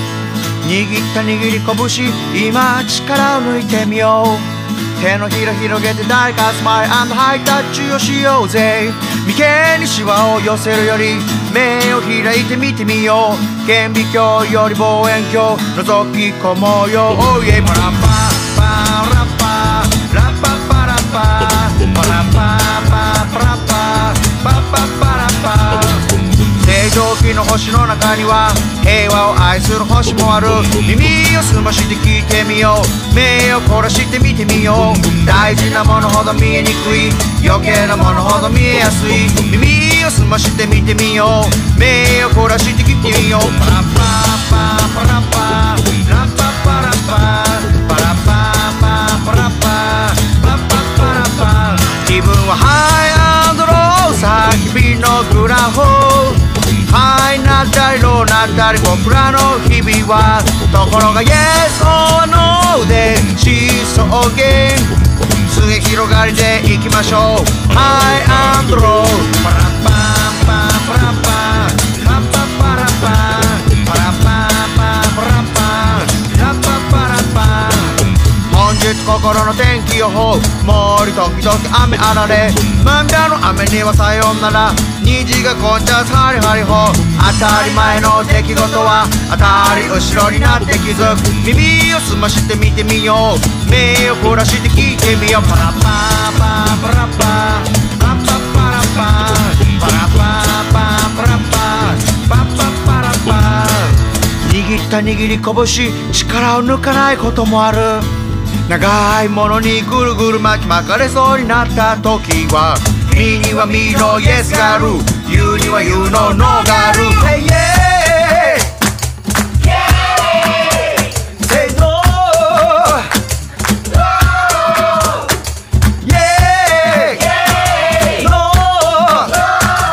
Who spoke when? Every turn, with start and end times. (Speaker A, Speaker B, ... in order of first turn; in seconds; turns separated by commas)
Speaker A: 0.6-118.7, Speaker A: 119.8-123.1, Speaker A: 126.0-129.4